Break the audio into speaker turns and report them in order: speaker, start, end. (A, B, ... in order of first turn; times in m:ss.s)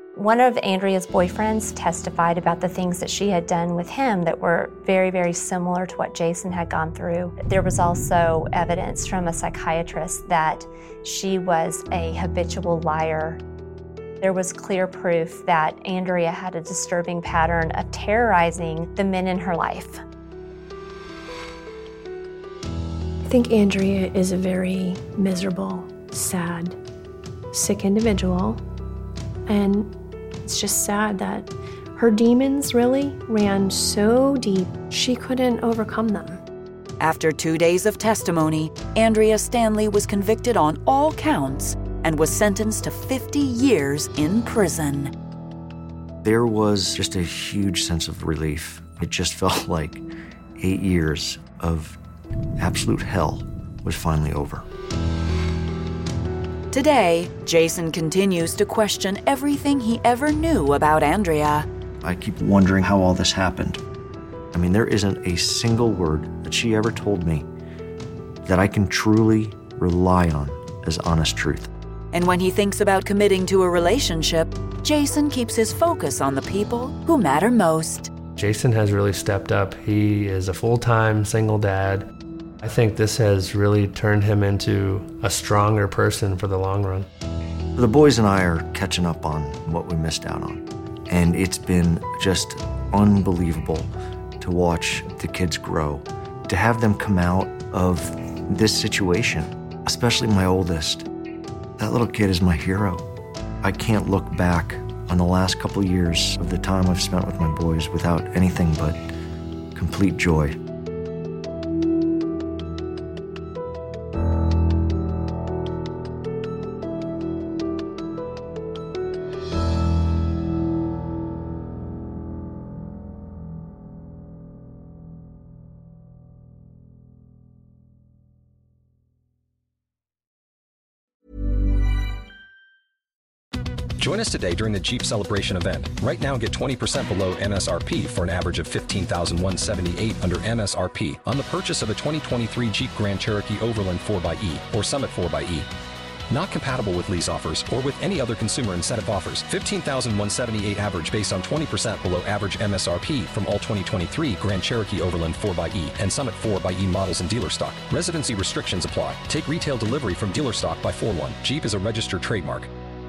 0:00.2-0:13.4 A
0:14.2-0:20.0 A
0:23.2-0:26.8 B
0:27.5-0:28.6 B
0:29.5-0:29.9 B
0:30.4-0:36.4 B
0:37.0-0:45.1 C
0:46.2-0:50.0 D
0:50.6-0:52.0 D
0:52.6-0:54.7 D
0:56.7-1:01.7 C
1:02.0-1:03.8 D
1:04.5-1:07.5 D
1:08.4-1:11.7 D
1:12.1-1:18.1 C
1:18.4-1:22.0 E
1:22.6-1:27.1 E
1:27.8-1:41.1 D
1:41.8-1:43.0 D
1:43.6-1:49.0 D
1:49.7-1:50.6 D
2:14.0-2:25.7 F
2:26.3-2:42.7 F